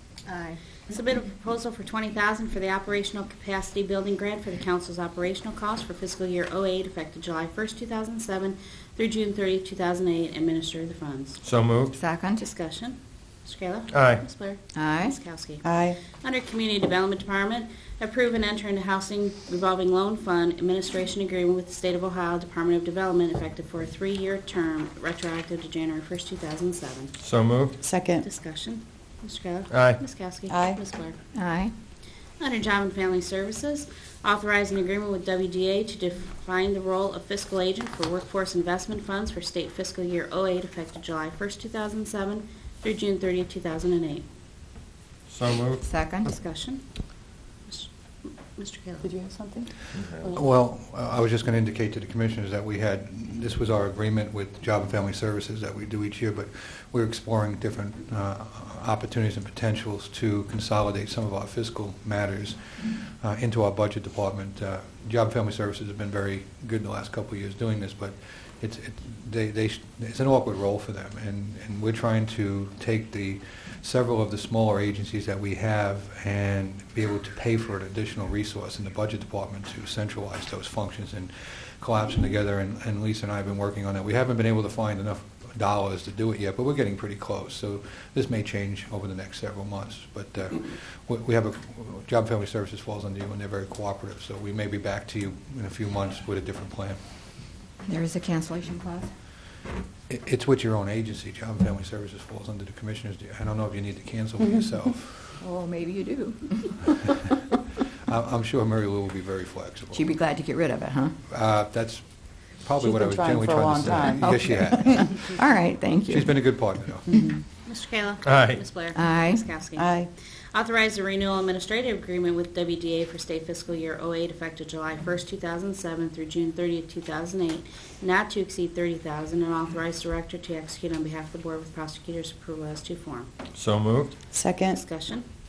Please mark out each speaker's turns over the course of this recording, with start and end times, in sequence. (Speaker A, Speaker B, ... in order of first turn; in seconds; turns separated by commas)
Speaker A: 0.3-11.4, Speaker B: 11.4-11.9, Speaker C: 11.9-12.4, Speaker A: 12.4-27.1, Speaker B: 13.9-14.2, Speaker C: 14.7-15.2, Speaker D: 15.6-16.0, Speaker B: 27.2-27.8, Speaker D: 27.8-28.3, Speaker A: 28.2-31.2, Speaker B: 29.7-30.0, Speaker D: 30.5-30.8, Speaker C: 31.4-31.7, Speaker A: 32.4-44.2, Speaker B: 45.3-45.9, Speaker C: 45.9-46.3, Speaker A: 46.2-47.0, Speaker A: 47.7-49.1, Speaker D: 49.0-49.7, Speaker B: 49.9-50.4, Speaker E: 50.2-97.0, Speaker C: 97.9-99.1, Speaker E: 100.1-105.4, Speaker C: 105.4-107.2, Speaker E: 108.1-110.0, Speaker C: 109.9-111.2, Speaker E: 111.3-112.1, Speaker E: 112.6-115.3, Speaker D: 112.8-114.4, Speaker C: 114.2-116.4, Speaker E: 116.1-117.1, Speaker D: 117.1-117.4, Speaker A: 117.7-120.0, Speaker B: 118.2-118.6, Speaker C: 118.9-119.5, Speaker D: 119.8-120.1, Speaker A: 120.5-133.3, Speaker B: 133.5-134.2, Speaker D: 134.3-134.8, Speaker A: 134.7-135.3